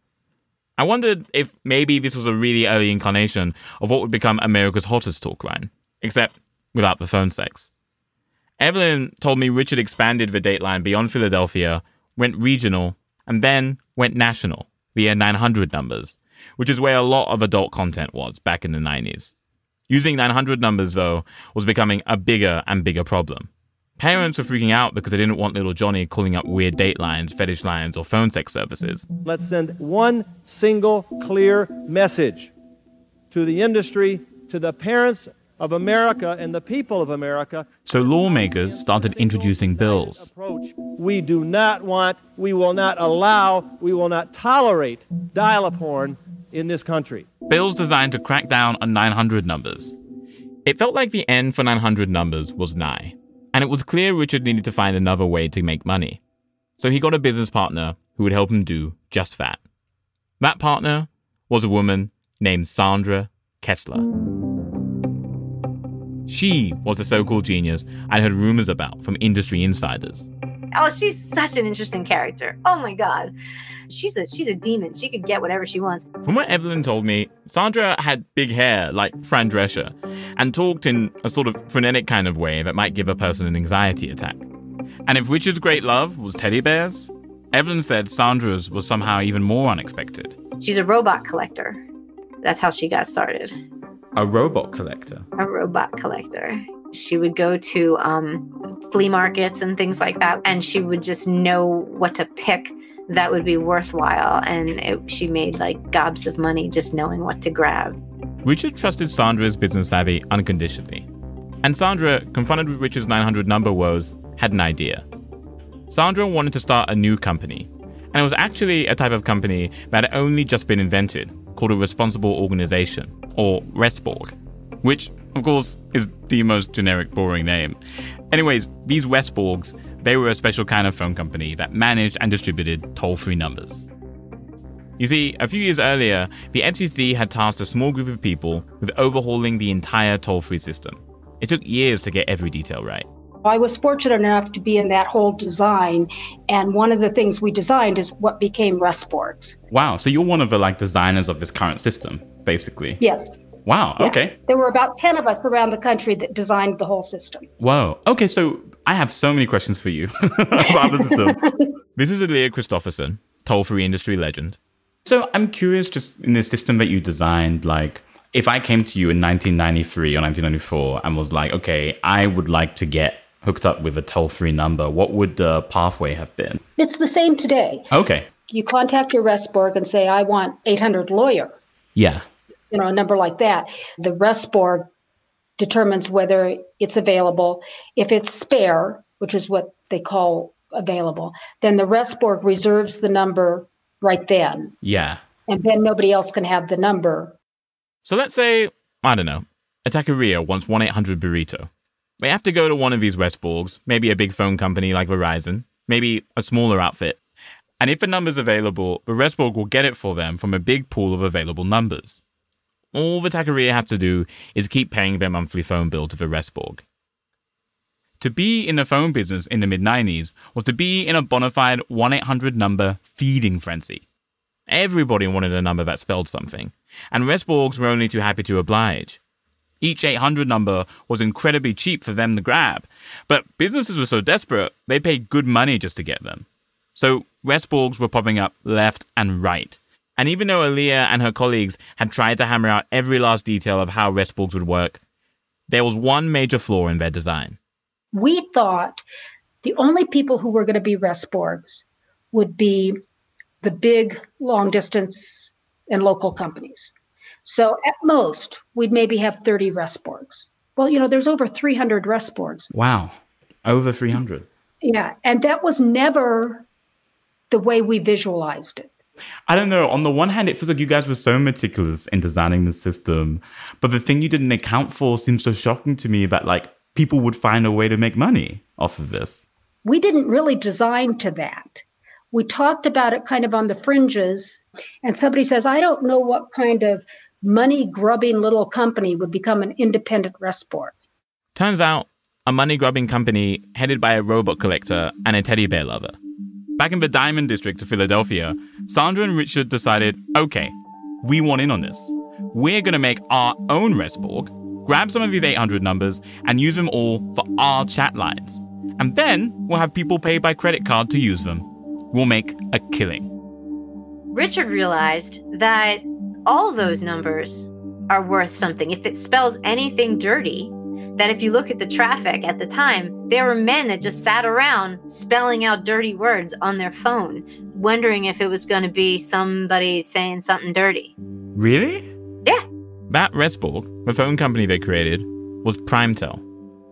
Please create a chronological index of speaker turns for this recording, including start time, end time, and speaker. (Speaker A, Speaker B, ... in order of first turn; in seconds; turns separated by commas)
Speaker A: 0.8-7.7, Speaker A: 8.6-19.3, Speaker A: 19.9-29.0, Speaker B: 29.2-32.5, Speaker B: 33.3-47.3, Speaker A: 37.9-40.3, Speaker A: 47.5-49.9, Speaker A: 50.6-56.2, Speaker A: 56.8-59.6, Speaker A: 60.4-64.0, Speaker A: 66.3-70.3, Speaker C: 70.7-73.3, Speaker C: 73.9-76.0, Speaker A: 76.2-84.5, Speaker A: 85.0-90.4, Speaker C: 90.6-91.8, Speaker C: 92.4-93.5, Speaker A: 94.2-95.2, Speaker C: 95.4-108.0, Speaker A: 108.4-111.1, Speaker A: 111.6-115.0, Speaker A: 115.9-127.8, Speaker A: 128.3-133.8, Speaker A: 135.0-143.1, Speaker D: 143.4-149.6, Speaker E: 149.7-152.4, Speaker A: 152.4-152.8, Speaker D: 153.0-153.5, Speaker E: 153.7-154.3, Speaker D: 154.0-157.5, Speaker A: 157.6-158.2, Speaker E: 158.6-159.8, Speaker D: 160.6-161.7, Speaker A: 160.7-161.3, Speaker A: 161.9-164.6, Speaker E: 165.1-173.6, Speaker E: 174.4-176.6, Speaker D: 176.8-177.8, Speaker A: 177.9-178.2, Speaker D: 178.5-181.6, Speaker D: 182.7-184.9, Speaker D: 185.6-194.7, Speaker A: 194.8-195.2, Speaker D: 195.5-197.3, Speaker A: 198.0-201.7, Speaker A: 202.2-207.2, Speaker A: 207.8-212.2, Speaker A: 212.9-216.8, Speaker A: 218.2-224.0, Speaker A: 224.7-229.2, Speaker A: 229.8-245.0, Speaker A: 245.7-247.6, Speaker D: 248.1-249.0, Speaker D: 249.6-253.0, Speaker D: 253.6-256.9, Speaker D: 257.4-262.7, Speaker E: 262.7-263.2, Speaker D: 264.8-266.6, Speaker D: 267.5-268.9, Speaker E: 269.6-279.3, Speaker D: 279.8-290.9, Speaker A: 291.5-296.1, Speaker A: 296.8-313.3, Speaker C: 314.3-331.1, Speaker A: 331.6-332.0, Speaker A: 333.1-336.4